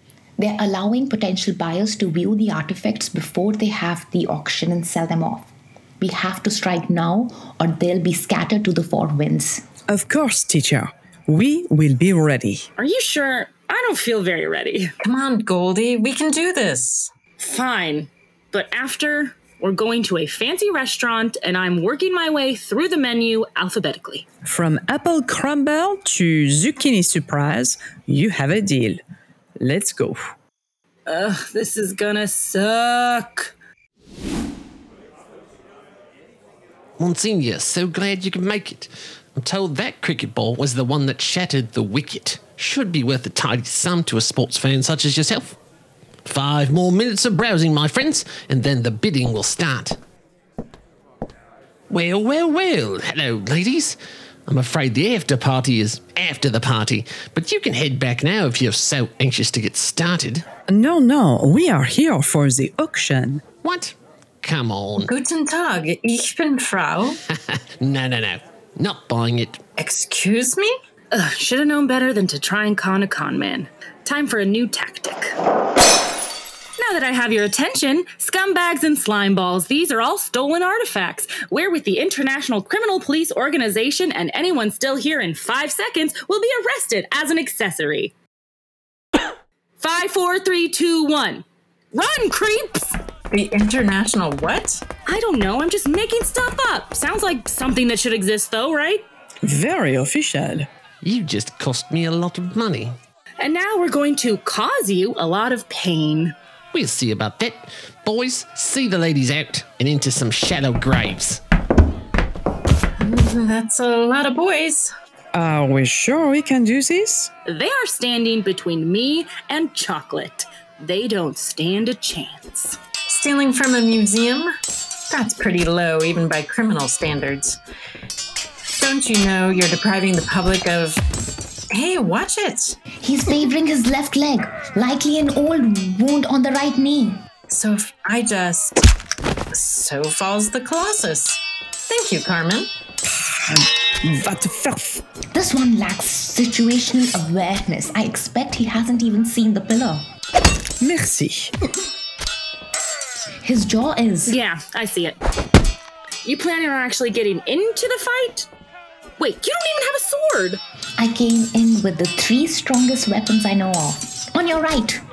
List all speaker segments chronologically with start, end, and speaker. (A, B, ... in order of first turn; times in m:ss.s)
0:00.4-0:05.5 A
0:06.0-0:09.6 A
0:09.9-0:12.7 B
0:12.8-0:14.9 C
0:15.0-0:17.1 D
0:17.4-0:24.2 C
0:24.4-0:29.0 B
0:29.6-0:30.2 B
0:31.1-0:33.5 C
0:37.0-0:38.8 E
0:39.4-0:45.4 E
0:46.3-0:50.0 E
0:51.9-0:53.9 E
0:54.5-1:00.4 E
1:00.7-1:03.4 B
1:03.6-1:03.9 E
1:04.4-1:05.1 E
1:05.0-1:07.2 D
1:07.8-1:09.6 E
1:09.8-1:10.7 D
1:11.1-1:15.3 C
1:16.8-1:28.1 C
1:29.8-1:33.0 C
1:33.3-1:34.8 D
1:35.0-1:39.0 C
1:39.4-1:40.7 B
1:41.1-1:42.9 E
1:43.4-1:46.3 C
1:46.7-1:51.4 E
1:53.0-1:54.9 D
1:55.3-1:57.3 B
1:57.4-2:02.8 C
2:03.1-2:04.5 D
2:05.1-2:07.6 D
2:08.7-2:11.0 D
2:11.7-2:12.8 D
2:13.0-2:17.2 A
2:17.5-2:18.9 D
2:19.5-2:22.7 D
2:23.4-2:25.0 B
2:25.3-2:30.0 A
2:30.8-2:31.5 B
2:33.4-2:34.4 A
2:34.2-2:35.2 C
2:36.2-2:38.5 C
2:39.2-2:40.6 C
2:41.0-2:45.0 A